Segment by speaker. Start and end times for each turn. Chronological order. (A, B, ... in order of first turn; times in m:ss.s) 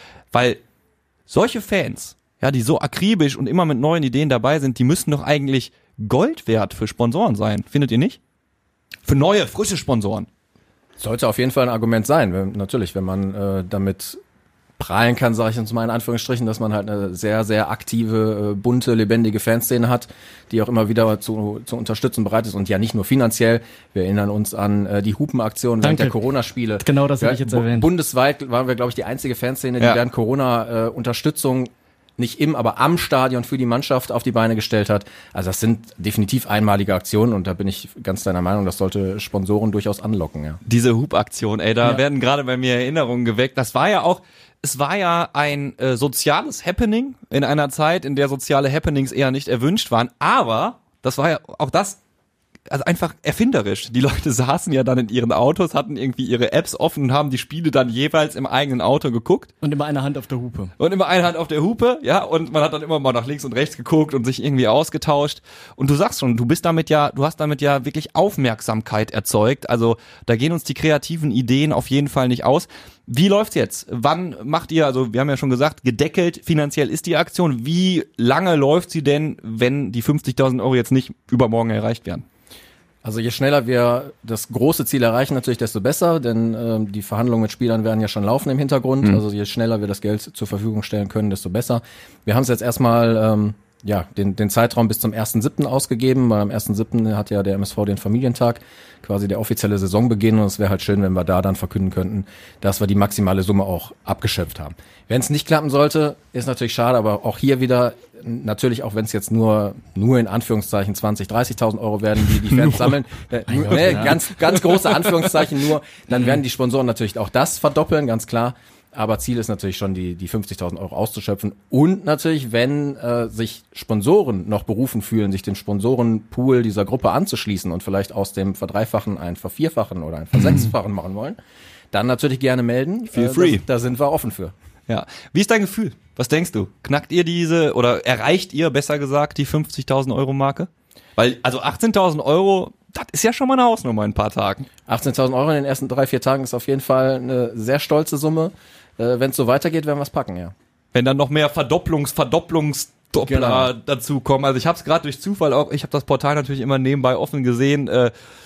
0:00.3-0:00.6 A
0:01.3-0:08.2 A
0:09.1-0:10.3 A
0:11.0-0:14.2 B
0:14.8-0:40.6 B
0:25.8-0:26.1 C
0:26.8-0:27.9 C
0:40.7-0:52.0 A
0:52.7-0:59.5 A
0:59.6-1:00.7 C
1:00.8-1:22.2 A
1:23.0-2:11.4 B
1:53.6-1:54.1 C
1:53.7-1:54.9 A
2:11.9-2:14.5 B
2:13.1-2:13.6 A
2:14.9-2:24.7 A
2:24.9-2:30.5 B
2:30.9-2:38.1 A
2:33.2-2:33.7 B